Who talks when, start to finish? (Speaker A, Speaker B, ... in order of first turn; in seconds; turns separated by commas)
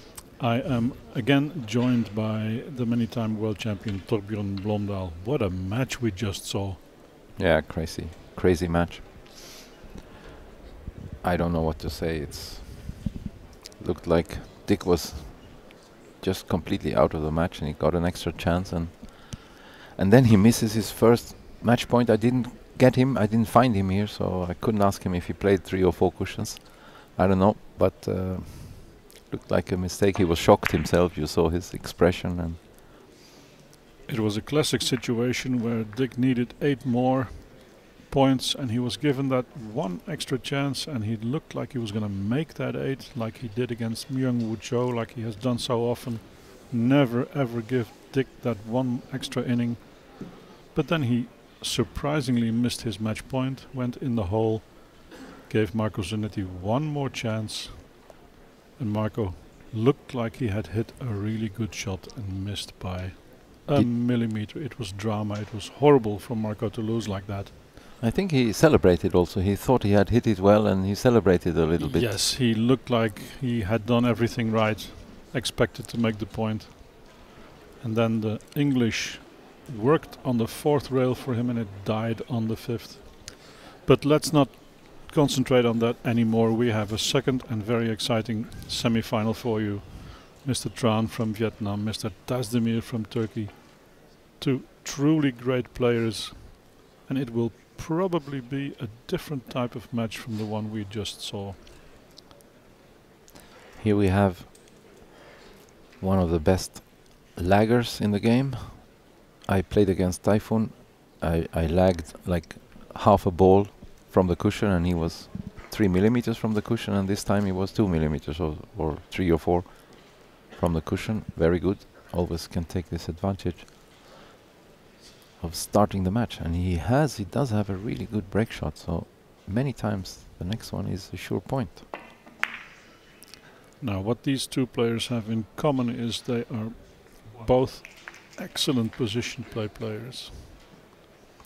Speaker A: 0.4-6.9, Speaker B: 7.3-9.1, Speaker B: 11.2-13.1, Speaker B: 13.8-32.6, Speaker A: 34.1-58.1, Speaker A: 58.8-67.5, Speaker B: 68.0-72.2, Speaker A: 71.8-77.3, Speaker A: 77.8-101.6, Speaker B: 103.8-104.9, Speaker B: 106.0-124.0, Speaker B: 125.4-131.9, Speaker A: 133.8-140.6